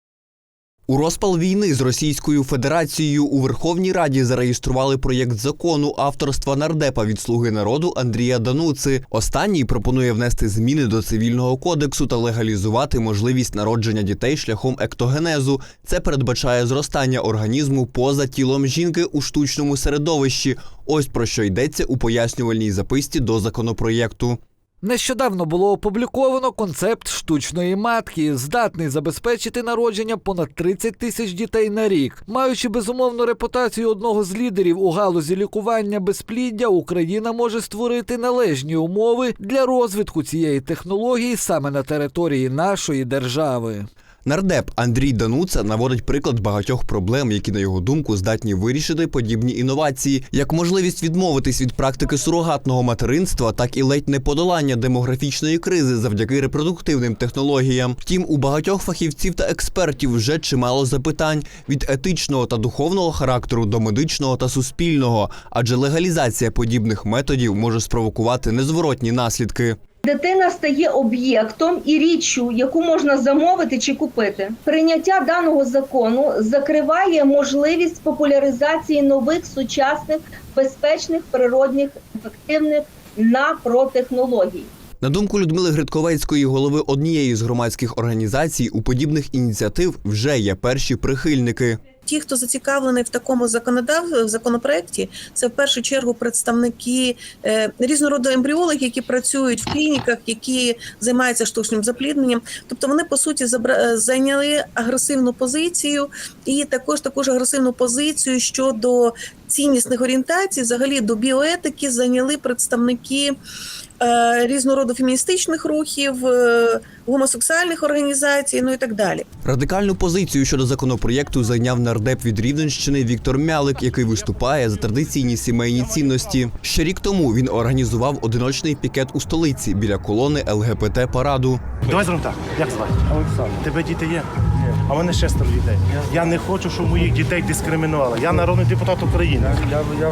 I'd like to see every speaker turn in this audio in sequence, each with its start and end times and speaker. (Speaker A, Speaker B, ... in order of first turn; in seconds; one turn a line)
Speaker A: 0.9-24.4
Speaker B: 24.8-43.9
Speaker A: 44.2-69.8
Speaker C: 70.0-84.7
Speaker A: 85.0-91.8
Speaker D: 92.0-113.3
Speaker D: 114.0-119.3
Speaker A: 119.4-131.7
Speaker E: 131.9-134.3
Speaker E: 134.8-139.6